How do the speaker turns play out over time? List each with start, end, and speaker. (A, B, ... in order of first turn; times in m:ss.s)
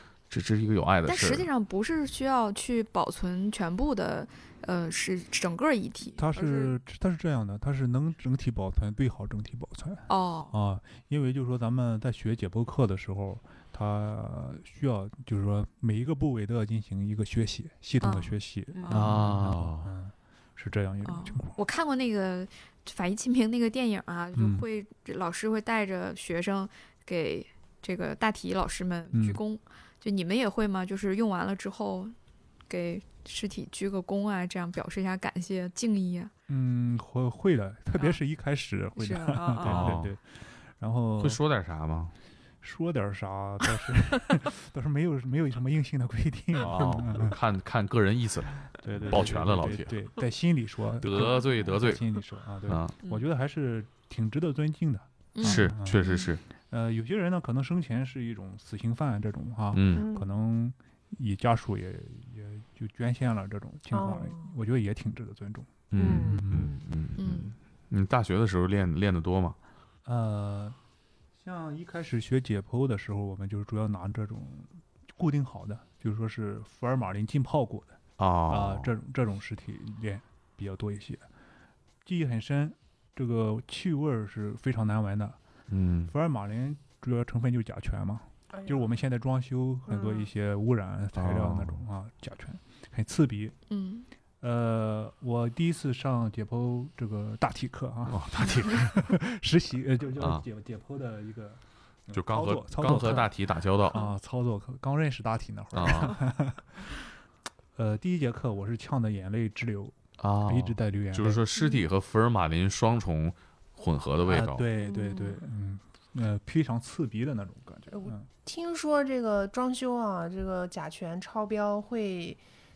0:00.3-0:01.5 A
0:01.0-0:06.8 B
0:06.2-0:21.6 C
0:10.1-0:10.6 B
0:18.0-0:19.1 B
0:18.9-0:19.9 A
0:21.0-0:32.2 B
0:24.4-0:24.7 C
0:29.1-0:29.4 C
0:32.7-0:36.3 B
0:36.5-0:41.4 C
0:39.0-0:39.9 B
0:39.6-0:40.1 A
0:41.2-0:42.1 A
0:42.6-0:47.4 C
0:46.6-0:49.9 A
0:48.8-0:56.0 C
0:51.0-0:53.0 A
0:55.4-0:56.3 B
0:55.4-0:56.4 A
0:56.7-1:06.8 C
0:59.7-1:00.1 A
0:59.9-1:00.3 D
1:03.9-1:04.5 D
1:05.9-1:09.6 A
1:06.0-1:06.4 D
1:07.2-1:07.6 B
1:10.0-1:10.8 C
1:11.4-1:21.2 C
1:18.2-1:18.9 A
1:22.0-1:25.4 C
1:25.7-1:26.1 A
1:26.1-1:33.6 C
1:28.5-1:28.8 D
1:29.9-1:30.3 D
1:31.2-1:31.8 A
1:33.7-1:34.1 B
1:34.4-1:47.0 C
1:38.1-1:39.1 A
1:40.2-1:40.4 A
1:42.1-1:44.0 A
1:45.7-1:46.2 A
1:47.8-1:51.4 C
1:50.2-1:54.6 A
1:54.2-1:58.3 C
1:54.8-1:55.4 D
1:57.9-2:02.4 D